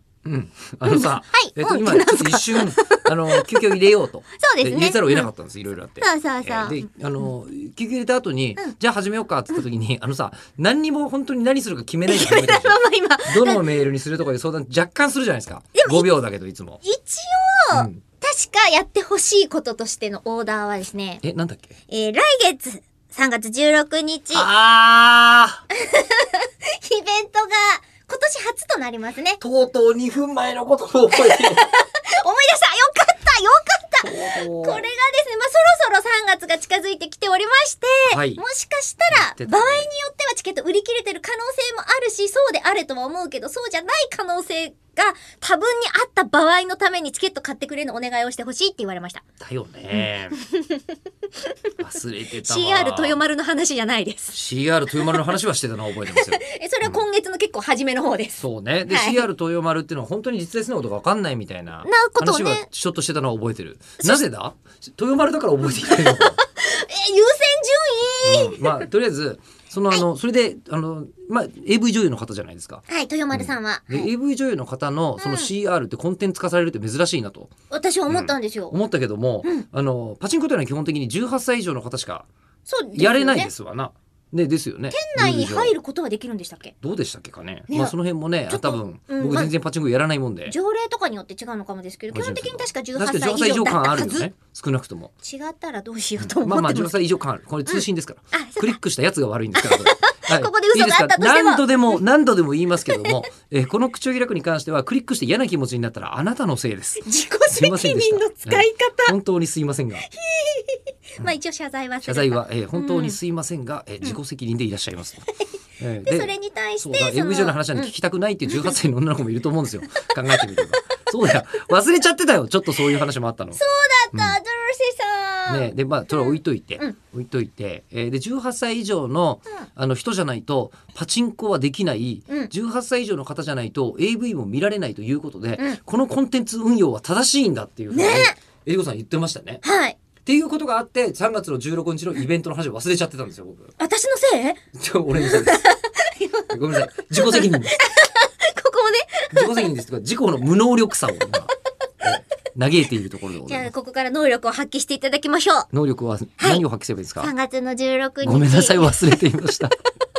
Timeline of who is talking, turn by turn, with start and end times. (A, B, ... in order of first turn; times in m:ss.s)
0:00.2-0:16.8 A
0:00.9-0:03.7 B
0:04.4-0:05.3 B
0:06.0-0:06.9 B
0:12.1-0:13.6 B
0:15.8-0:16.1 B
0:16.8-0:21.2 B
0:17.7-0:18.0 A
0:21.2-0:21.8 A
0:21.9-0:24.5 B
0:24.3-0:25.6 A
0:25.8-0:29.4 B
0:29.4-0:31.6 A
0:31.1-0:49.2 B
0:34.0-0:34.8 A
0:38.1-0:38.4 A
0:39.1-0:39.9 A
0:49.4-0:50.4 A
0:49.9-0:50.8 B
0:51.8-0:53.2 A
0:52.4-0:54.4 B
0:54.3-0:57.0 A
0:56.2-0:59.3 B
0:58.4-1:06.4 A
1:01.8-1:02.7 B
1:05.7-1:08.9 B
1:08.2-1:17.5 A
1:12.9-1:14.1 B
1:15.2-1:15.5 B
1:17.7-1:18.7 B
1:18.1-1:22.3 A
1:22.7-1:23.5 B
1:23.0-1:25.8 A
1:24.9-1:26.7 B
1:26.8-1:30.6 A
1:27.7-1:28.0 B
1:28.5-1:29.5 B
1:30.5-1:34.3 B
1:32.1-1:35.1 A
1:35.2-1:37.0 B
1:36.2-1:50.0 A
1:37.7-1:38.8 B
1:39.6-1:42.0 B
1:42.9-1:43.3 B
1:47.0-1:49.2 B
1:50.0-1:53.2 B
1:52.0-1:55.3 A
1:55.8-2:03.6 A
1:56.0-1:57.9 B
1:58.5-1:58.8 B
2:00.3-2:00.9 B
2:03.6-2:07.0 B
2:05.5-2:19.6 A
2:17.9-2:18.4 B
2:19.6-2:20.0 B
2:20.2-2:23.7 A
2:23.8-2:24.6 B
2:24.8-2:25.6 A
2:25.2-2:29.7 B
2:26.5-2:27.8 A
2:29.3-2:31.5 A
2:32.0-2:33.7 A
2:33.4-2:35.7 B
2:35.7-2:37.3 A
2:37.2-2:39.2 B
2:38.2-2:39.8 A